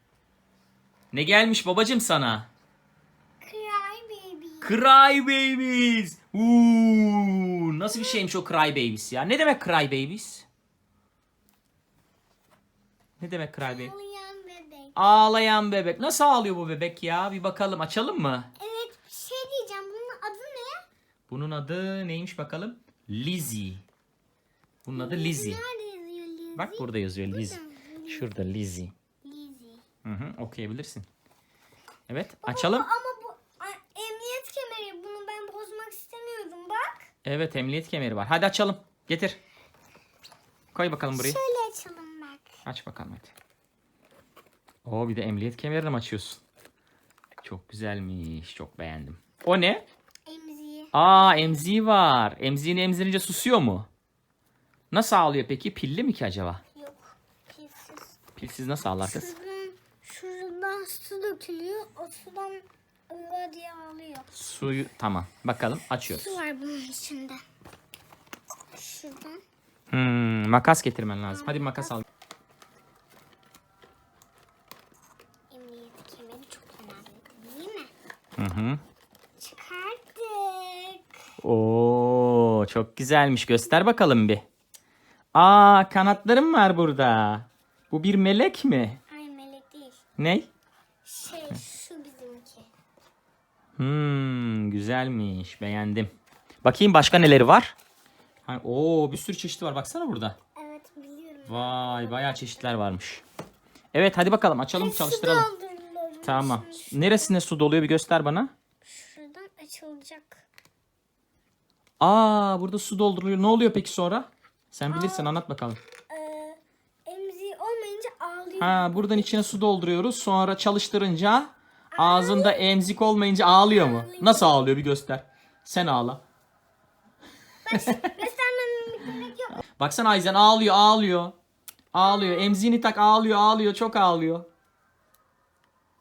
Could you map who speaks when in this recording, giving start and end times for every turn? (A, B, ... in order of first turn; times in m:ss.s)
0:01.1-0:02.5 A
0:03.4-0:04.8 B
0:04.6-0:10.5 A
0:07.9-0:08.2 B
0:13.2-0:13.9 A
0:13.6-0:15.0 B
0:14.9-0:18.5 A
0:18.6-0:20.8 B
0:21.3-0:23.8 A
0:24.8-0:25.6 A
0:24.9-0:28.5 B
0:26.6-0:28.9 A
0:29.2-0:29.8 B
0:30.0-0:31.1 A
0:32.1-0:32.9 A
0:32.4-0:37.1 B
0:37.2-0:39.4 A
0:40.7-0:41.4 A
0:41.1-0:42.5 B
0:42.7-0:43.3 A
0:44.8-0:46.4 A
0:47.4-0:49.8 A
0:50.2-0:51.7 B
0:50.9-0:53.9 A
0:54.9-0:56.6 A
0:56.7-0:58.2 B
0:58.4-0:59.3 A
0:59.0-1:04.3 B
1:04.3-1:06.4 A
1:06.0-1:07.4 B
1:08.8-1:09.4 B
1:09.9-1:12.0 A
1:11.4-1:11.9 B
1:15.5-1:17.9 B
1:18.4-1:18.8 A
1:19.4-1:21.0 B
1:21.4-1:24.4 A
1:25.3-1:29.0 A
1:29.1-1:30.0 B
1:30.2-1:30.5 A
1:31.0-1:32.7 B
1:33.8-1:36.1 A
1:36.6-1:37.8 A
1:38.4-1:40.4 A
1:40.6-1:42.8 B
1:41.4-1:43.2 A
1:43.9-1:45.5 A
1:44.8-1:47.4 B
1:46.2-1:48.5 A
1:48.8-1:50.4 B
1:52.0-1:55.8 A
1:54.9-1:55.3 B
1:56.1-1:59.5 B
1:58.6-2:06.2 A
2:01.9-2:02.6 B
2:03.7-2:04.6 B
2:07.6-2:09.6 B
2:07.8-2:08.1 A
2:09.7-2:11.3 A
2:11.9-2:14.5 A
2:12.0-2:12.6 B